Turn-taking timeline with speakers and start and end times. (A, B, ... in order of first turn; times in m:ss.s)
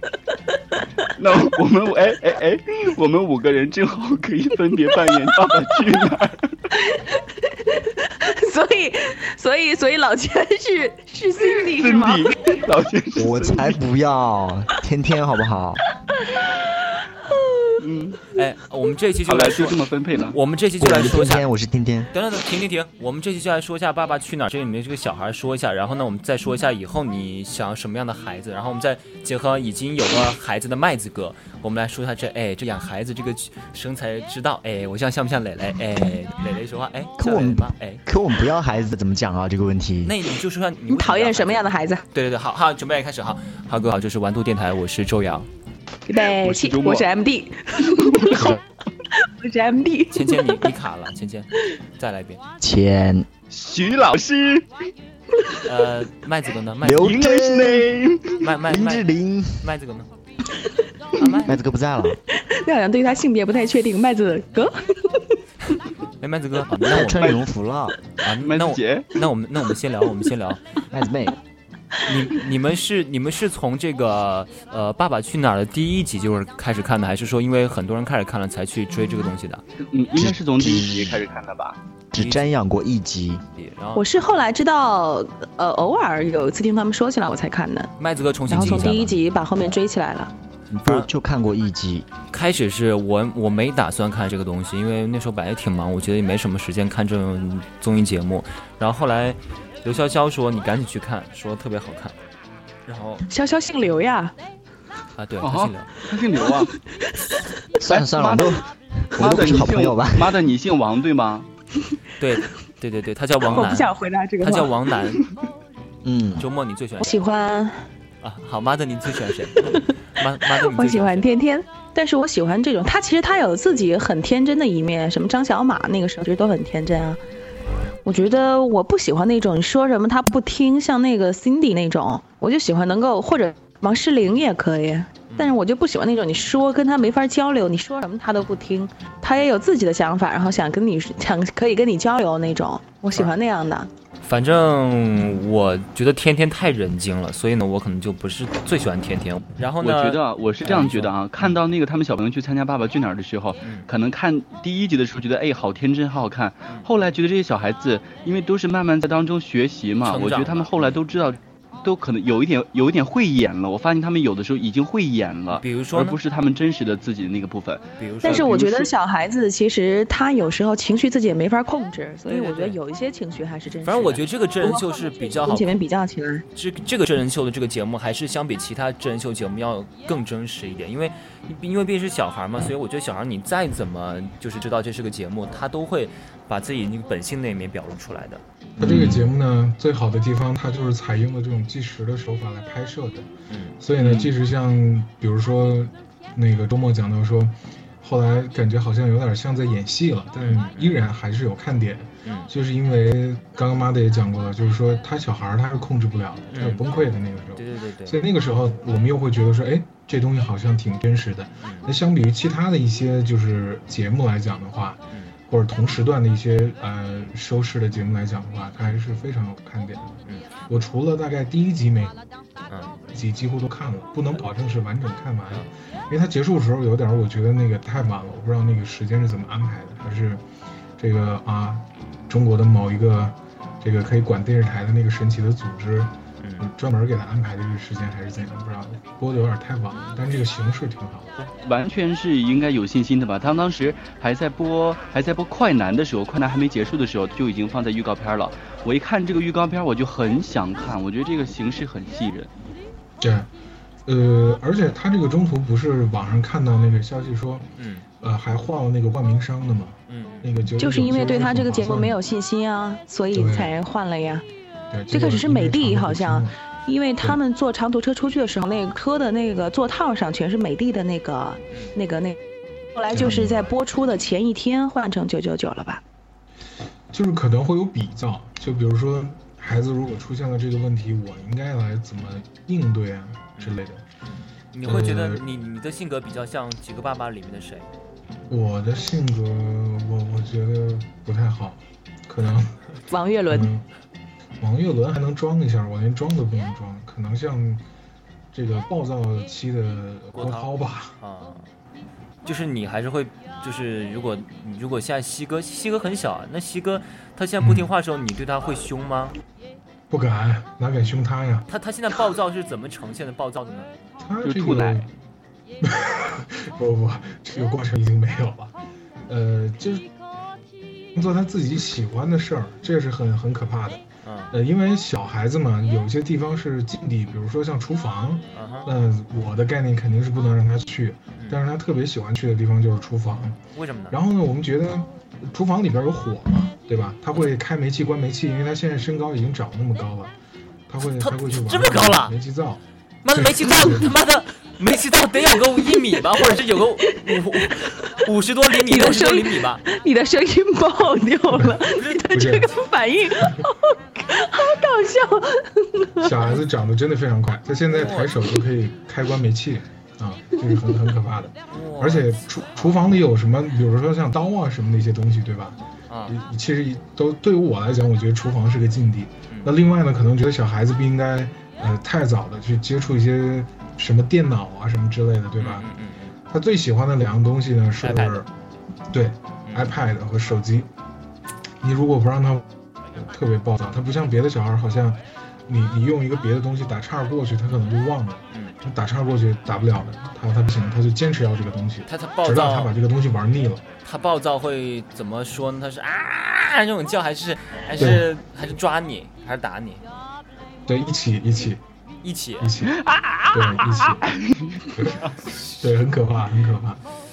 0:00.5-0:00.8 A
0:01.1-0:06.7 B
0:06.8-0:12.4 A
0:11.5-0:13.8 B
0:13.2-0:15.8 C
0:16.3-0:17.7 A
0:17.8-0:18.3 B
0:18.3-0:21.4 D
0:19.3-0:20.4 B
0:20.8-0:22.1 C
0:22.1-0:38.0 D
0:37.2-0:40.2 C
0:40.0-0:45.5 D
0:40.9-0:42.0 A
0:46.1-0:48.6 A
0:46.1-0:47.1 B
0:48.2-0:48.5 B
0:49.1-0:50.6 A
0:50.1-0:52.4 D
0:52.6-0:53.3 C
0:53.5-0:54.7 B
0:55.6-0:57.1 D
0:56.8-0:57.9 C
0:57.0-0:58.4 B
0:58.4-0:59.0 D
0:58.6-0:59.7 C
0:59.6-1:00.1 D
1:01.2-1:01.6 D
1:01.4-1:02.2 C
1:02.3-1:05.4 A
1:06.2-1:07.4 D
1:06.8-1:08.0 C
1:08.2-1:10.6 D
1:08.4-1:09.1 B
1:10.9-1:11.4 C
1:12.0-1:19.6 D
1:19.8-1:21.8 B
1:20.2-1:21.2 C
1:22.1-1:23.4 C
1:22.2-1:22.4 D
1:23.6-1:24.1 D
1:24.0-1:27.9 A
1:28.0-1:29.1 D
1:28.5-1:30.3 A
1:30.7-1:32.1 C
1:30.8-1:31.1 D
1:32.3-1:42.2 D
1:42.9-1:43.3 D
1:43.3-1:44.4 A
1:45.2-1:45.9 D
1:45.4-1:46.8 B
1:47.8-1:50.4 C
1:47.9-1:51.5 B
1:52.2-1:55.2 D
1:53.4-1:54.7 A
1:56.0-1:56.5 C
1:56.4-1:57.2 D
1:57.0-1:57.9 A
1:58.2-2:01.3 D
2:00.5-2:07.2 A
2:08.0-2:23.9 A
2:24.2-2:31.6 D
2:29.8-2:48.9 B
2:40.0-2:41.0 D
2:45.6-2:46.2 D
2:48.0-2:48.6 D
2:48.2-2:56.4 A
2:52.3-2:52.8 D
2:53.8-2:55.7 D
2:56.6-3:08.4 D
3:08.8-3:42.2 E
3:08.8-3:09.2 B
3:13.5-3:13.8 D
3:14.0-3:14.3 B
3:20.4-3:21.0 D
3:22.2-3:22.5 D
3:26.5-3:26.8 D
3:27.6-3:28.2 D
3:31.6-3:31.9 D
3:40.3-3:40.5 D
3:42.7-3:43.0 D
3:43.1-3:50.4 E
3:51.0-4:01.3 E
3:56.4-3:56.7 D
4:01.6-4:12.5 B
4:13.2-4:13.5 E
4:14.1-4:17.7 E
4:17.8-4:18.1 D
4:18.2-4:22.2 E
4:20.1-4:20.5 D
4:20.8-4:24.5 A
4:23.3-4:23.8 E
4:24.9-4:26.6 E
4:25.1-4:32.4 A
4:33.0-4:36.0 A
4:33.1-4:33.7 E
4:37.1-4:44.0 E
4:44.3-4:47.9 D
4:44.8-4:45.4 E
4:48.5-4:52.9 E
4:53.1-4:53.7 A
4:53.5-4:53.9 E
4:54.6-4:57.8 E
4:58.5-5:01.2 E
5:00.3-5:01.7 D
5:02.4-5:09.4 D
5:07.6-5:07.9 E
5:10.1-5:11.7 E
5:11.7-5:13.9 D
5:14.2-5:15.1 E
5:14.4-5:15.0 B
5:15.8-5:18.8 E
5:19.3-5:20.1 E
5:21.1-5:33.6 E
5:24.2-5:24.5 D
5:28.5-5:28.9 D
5:33.8-5:34.2 D
5:34.1-5:40.3 E
5:40.9-5:44.2 E
5:41.2-5:42.3 D
5:43.2-5:49.8 D
5:48.8-5:56.5 A
5:51.5-5:52.8 E
5:51.8-5:52.4 D
5:53.4-5:53.7 E
5:56.2-6:15.9 E
5:57.9-5:58.4 D
6:01.7-6:03.1 D
6:06.1-6:06.4 D
6:15.6-6:16.4 D
6:16.5-6:18.5 E
6:18.0-6:18.4 D
6:19.1-6:20.9 E
6:19.7-6:19.9 D
6:21.8-6:33.8 E
6:28.5-6:28.8 D
6:32.1-6:32.9 D
6:34.0-6:40.0 D
6:38.0-6:38.3 E
6:40.9-6:41.8 E
6:42.2-6:42.7 D
6:42.6-6:44.3 E
6:43.0-6:45.4 B
6:44.9-6:45.2 E
6:45.8-6:47.0 E